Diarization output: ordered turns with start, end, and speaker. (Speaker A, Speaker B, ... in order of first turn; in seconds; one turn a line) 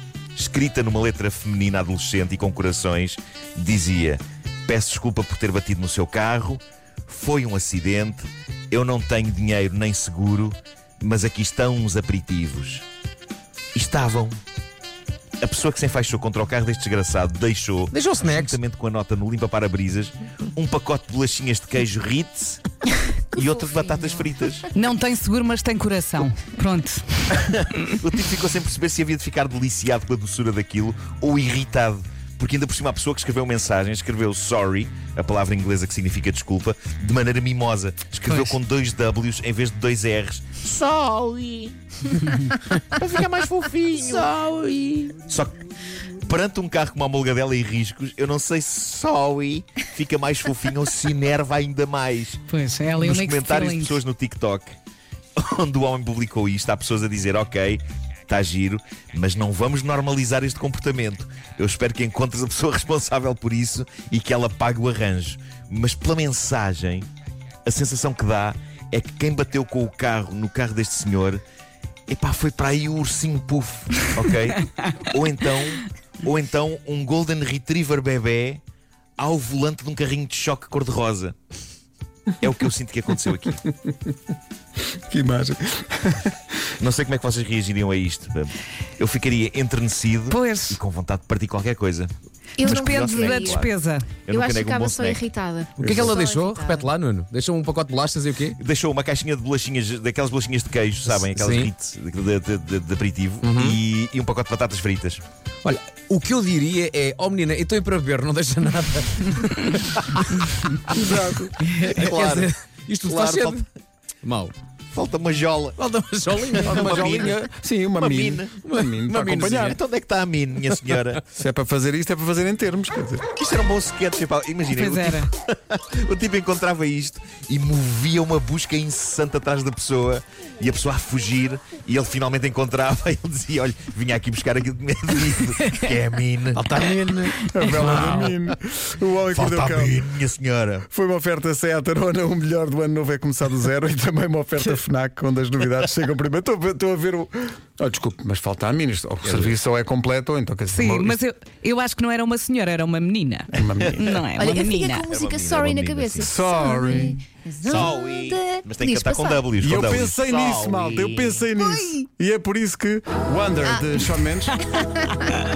Speaker A: 0.3-12.8
Speaker A: 13.7-14.4
Speaker A: 15.4-22.6
Speaker B: 17.9-18.6
Speaker A: 23.3-24.7
Speaker C: 23.3-24.1
Speaker D: 24.7-27.4
Speaker A: 27.3-52.4
Speaker D: 52.5-54.0
Speaker A: 53.0-54.7
Speaker A: 55.4-67.1
Speaker A: 67.7-71.4
Speaker A: 72.1-78.6
Speaker A: 79.2-81.3
Speaker A: 82.4-83.6
Speaker E: 85.1-86.3
Speaker A: 86.8-93.7
Speaker D: 90.3-90.8
Speaker C: 92.6-93.7
Speaker D: 92.6-94.1
Speaker A: 94.2-95.2
Speaker C: 94.3-96.9
Speaker B: 95.8-98.6
Speaker E: 95.8-96.2
Speaker A: 98.6-105.2
Speaker B: 101.0-101.7
Speaker B: 103.4-103.8
Speaker B: 105.6-111.0
Speaker E: 110.9-111.5
Speaker B: 111.6-113.6
Speaker A: 111.8-113.6
Speaker B: 114.2-114.5
Speaker A: 114.9-117.4
Speaker B: 115.8-117.4
Speaker E: 116.6-119.8
Speaker A: 117.9-118.5
Speaker B: 118.6-119.8
Speaker A: 119.6-121.2
Speaker B: 120.7-121.1
Speaker E: 121.3-123.2
Speaker A: 123.3-136.6
Speaker D: 124.7-125.3
Speaker B: 136.5-138.3
Speaker E: 137.3-140.0
Speaker A: 137.8-138.4
Speaker A: 139.3-140.8
Speaker E: 140.9-151.2
Speaker D: 150.7-155.1
Speaker E: 153.5-154.0
Speaker A: 153.8-154.2
Speaker C: 154.3-159.9
Speaker A: 155.0-156.3
Speaker E: 156.2-157.2
Speaker A: 157.6-161.5
Speaker E: 159.6-164.6
Speaker C: 161.6-161.9
Speaker C: 163.6-164.1
Speaker C: 164.7-165.2